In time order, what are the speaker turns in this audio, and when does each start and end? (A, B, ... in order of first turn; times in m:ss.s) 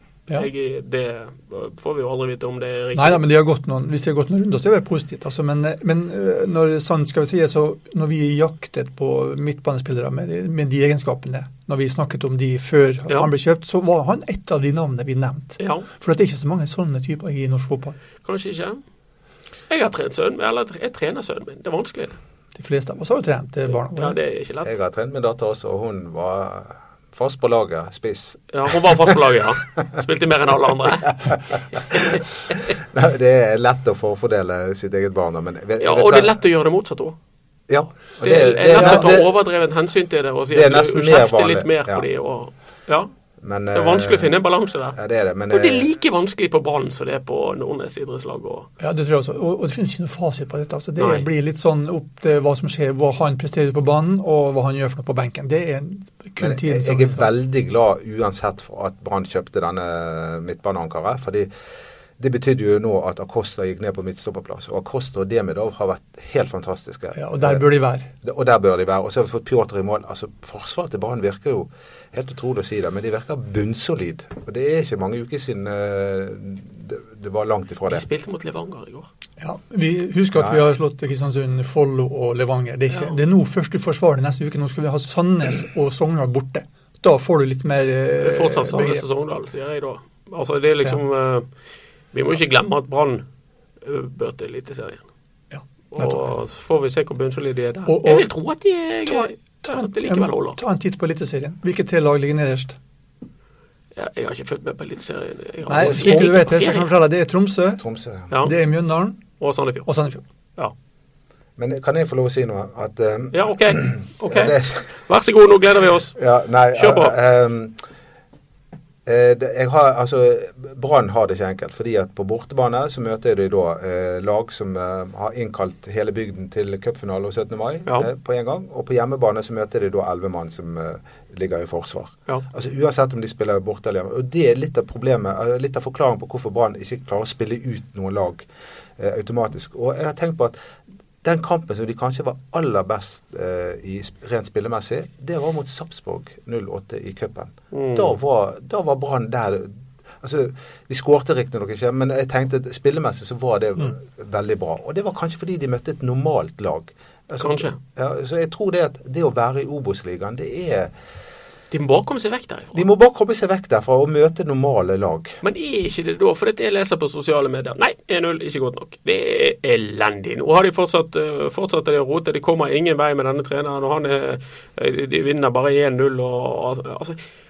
0:00.4-0:03.2 A
0:03.0-0:18.0 B
0:15.6-0:15.9 A
0:18.2-0:18.8 A
0:19.7-0:22.2 A
0:22.6-0:24.2 B
0:23.7-0:24.8 A
0:24.6-0:29.2 C
0:28.5-0:32.2 A
0:31.9-0:32.2 C
0:32.7-0:36.3 C
0:35.8-0:37.2 A
0:37.7-0:39.3 C
0:38.2-0:43.1 A
0:38.7-0:39.1 B
0:40.5-0:42.1 C
0:43.4-0:44.4 C
0:43.7-0:45.0 A
0:44.9-0:45.9 C
0:45.5-0:48.7 A
0:48.8-0:57.3 B
0:51.0-0:51.3 A
0:56.4-1:01.5 C
1:02.2-1:07.6 C
1:07.2-1:08.1 B
1:08.2-1:18.0 C
1:17.9-1:19.1 A
1:19.4-1:29.0 B
1:20.4-1:20.6 C
1:22.9-1:23.2 A
1:28.2-1:31.5 A
1:32.1-1:33.2 A
1:33.8-1:35.0 A
1:35.5-1:36.3 B
1:35.9-1:40.6 A
1:37.9-1:38.3 B
1:39.1-1:42.8 B
1:44.0-1:46.9 A
1:45.7-1:47.8 B
1:45.8-1:46.2 C
1:47.8-1:48.3 C
1:48.4-1:49.2 B
1:49.4-1:49.9 A
1:49.9-1:50.2 B
1:51.6-1:54.9 C
1:53.3-1:56.2 A
1:56.2-1:57.8 C
1:56.8-1:57.2 A
1:59.1-2:18.5 C
2:19.0-2:20.6 C
2:21.2-2:40.9 C
2:27.7-2:28.2 A
2:37.4-2:37.8 A
2:41.7-2:42.8 A
2:42.8-2:45.4 C
2:45.4-2:57.2 A